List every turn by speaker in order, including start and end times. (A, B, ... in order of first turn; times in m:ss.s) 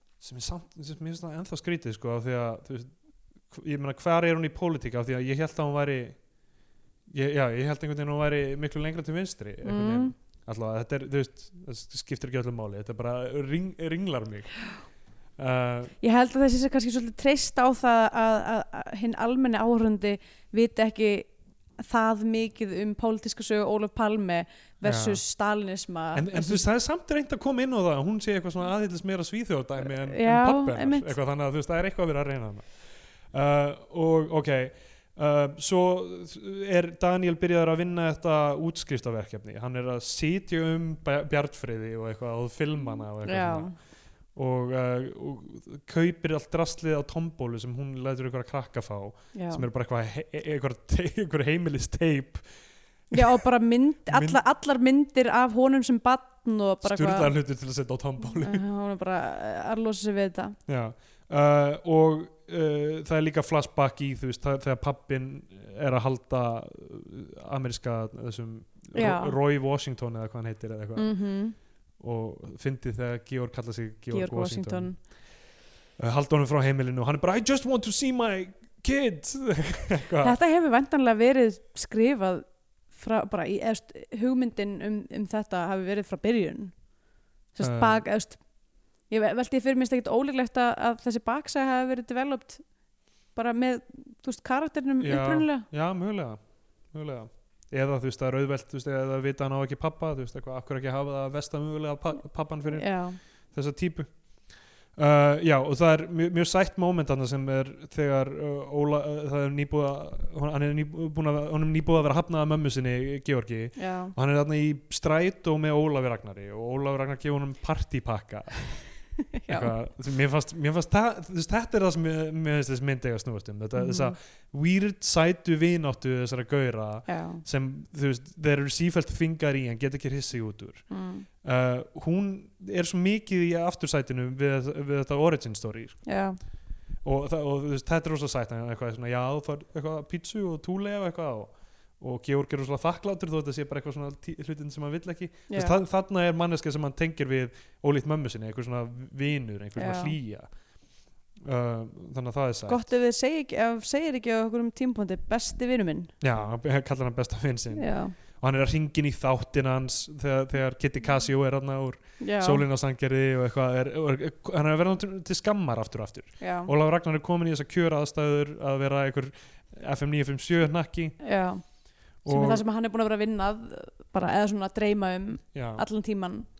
0:00.2-0:02.9 A
0:03.5-0:06.2 A
0:07.1-0:14.5 A
0:09.6-0:10.1 B
0:15.4-0:15.9 A
0:16.0-0:26.6 B
0:24.8-0:25.2 A
0:26.1-0:32.7 A
0:30.0-0:31.1 B
0:33.3-0:43.7 A
0:43.2-0:43.7 B
0:44.3-0:52.4 A
0:49.3-0:49.6 B
0:53.1-0:57.3 B
0:53.1-0:53.4 A
0:54.1-0:54.4 A
0:56.8-0:58.6 A
0:58.4-1:00.6 B
1:00.7-1:11.1 A
1:08.9-1:09.4 B
1:11.0-1:11.5 B
1:12.0-1:14.9 A
1:14.1-1:15.0 B
1:16.0-1:20.4 A
1:20.2-1:26.7 B
1:27.5-1:28.4 B
1:27.6-1:28.0 A
1:29.1-1:32.6 B
1:33.3-1:35.7 B
1:35.0-1:36.4 A
1:36.9-1:43.0 A
1:42.7-1:43.2 B
1:43.5-1:44.1 A
1:45.0-1:58.9 A
1:53.8-1:54.1 B
1:59.4-1:59.7 B
1:59.5-2:10.8 A
2:03.8-2:04.2 B
2:07.1-2:07.4 B
2:10.9-2:11.3 B
2:11.4-2:16.0 A
2:16.0-2:16.4 B
2:17.0-2:30.5 A
2:25.5-2:25.8 B
2:29.8-2:30.1 B
2:31.4-2:32.9 A
2:32.7-2:36.1 B
2:36.2-2:51.2 A
2:37.7-2:38.1 B
2:42.2-2:42.6 B
2:46.4-2:46.7 B
2:51.2-2:51.6 B
2:52.2-2:52.6 A
2:52.2-2:56.4 B
2:55.5-2:55.8 A